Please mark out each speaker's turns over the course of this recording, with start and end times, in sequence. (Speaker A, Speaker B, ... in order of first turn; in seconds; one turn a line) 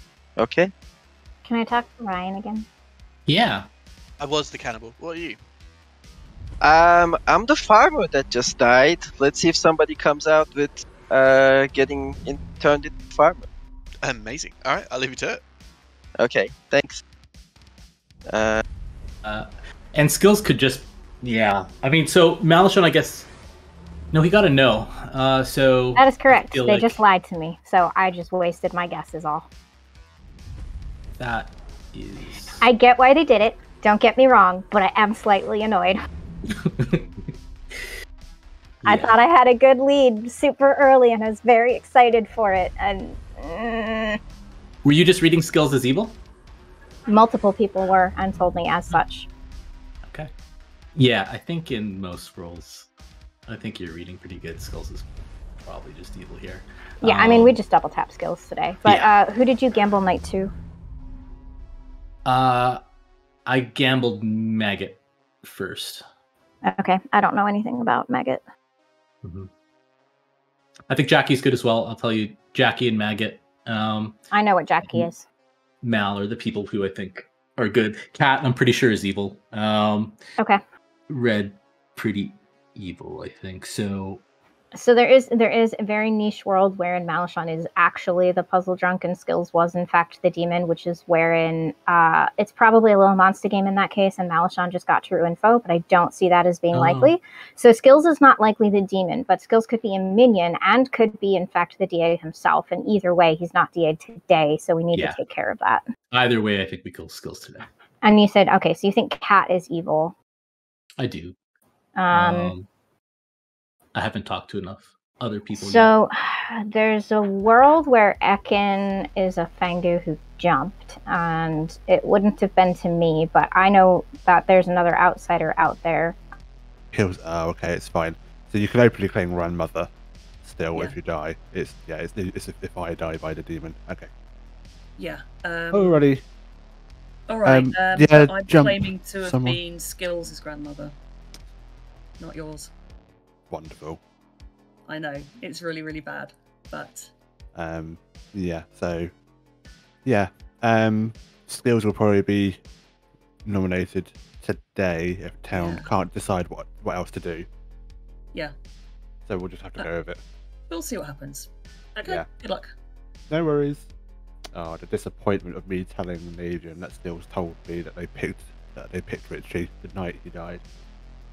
Speaker A: 0.4-0.7
Speaker B: 1.4-2.7
Speaker C: 3.3-3.7
Speaker D: 4.2-5.4
Speaker A: 6.6-13.5
Speaker D: 14.0-15.4
Speaker A: 16.2-17.0
Speaker A: 18.3-18.6
Speaker C: 19.2-23.3
Speaker C: 24.1-27.0
Speaker B: 26.0-29.5
Speaker C: 31.2-32.6
Speaker B: 32.6-36.0
Speaker C: 36.6-37.1
Speaker C: 38.8-39.1
Speaker B: 38.9-44.2
Speaker C: 44.8-46.2
Speaker B: 47.1-49.3
Speaker C: 51.0-52.9
Speaker C: 53.5-55.1
Speaker C: 55.6-57.6
Speaker B: 57.0-60.5
Speaker C: 58.9-59.1
Speaker C: 62.2-62.8
Speaker C: 63.5-66.0
Speaker B: 66.7-68.4
Speaker C: 69.2-69.5
Speaker C: 70.9-74.2
Speaker B: 74.3-75.2
Speaker C: 75.8-80.2
Speaker C: 81.1-84.2
Speaker B: 84.8-105.8
Speaker C: 96.7-97.2
Speaker C: 104.9-105.2
Speaker C: 106.1-107.7
Speaker B: 108.0-110.1
Speaker C: 111.0-111.4
Speaker B: 112.0-112.5
Speaker C: 112.1-112.7
Speaker C: 113.9-115.9
Speaker B: 115.5-126.2
Speaker E: 126.9-129.9
Speaker E: 130.4-134.1
Speaker F: 135.0-136.0
Speaker E: 135.7-136.2
Speaker F: 137.3-140.9
Speaker E: 137.4-139.6
Speaker F: 142.2-142.7
Speaker E: 143.5-144.0
Speaker F: 144.9-147.1
Speaker E: 147.6-149.1
Speaker E: 150.1-152.6
Speaker E: 153.4-157.5
Speaker F: 155.5-155.9
Speaker E: 159.3-160.2
Speaker F: 160.7-162.7
Speaker E: 163.3-163.9
Speaker E: 164.5-170.6